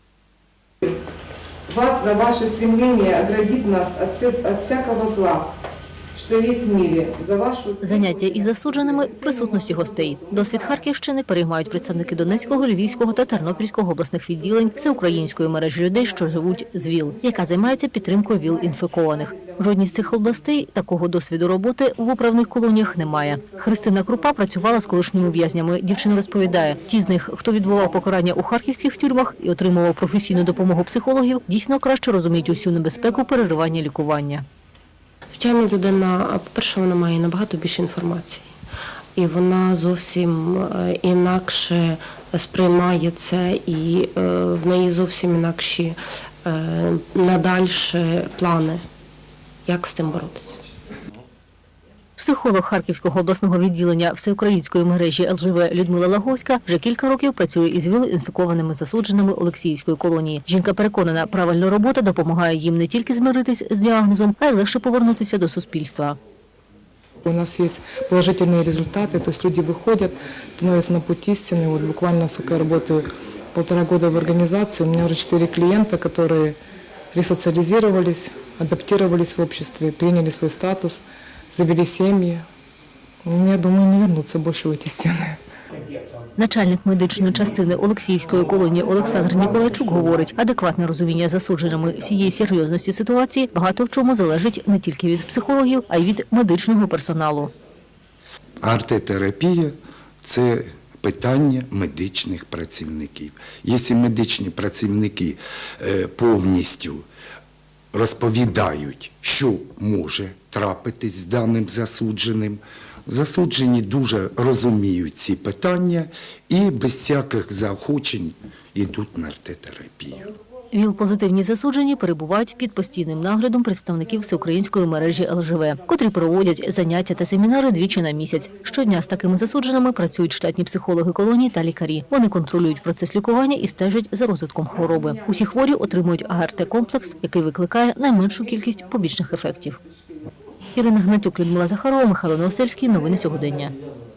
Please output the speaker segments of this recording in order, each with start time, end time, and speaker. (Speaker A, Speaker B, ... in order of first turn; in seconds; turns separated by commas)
Speaker A: 1.7-5.4, Speaker A: 6.2-7.8, Speaker B: 7.8-34.4, Speaker C: 35.3-38.5, Speaker C: 39.1-48.8, Speaker C: 49.6-50.6, Speaker B: 52.2-66.2, Speaker D: 67.2-76.5, Speaker D: 77.1-82.4, Speaker D: 83.2-85.3, Speaker B: 86.4-97.5, Speaker E: 98.6-107.0, Speaker E: 107.9-120.3, Speaker B: 120.7-139.8, Speaker B: 140.7-143.7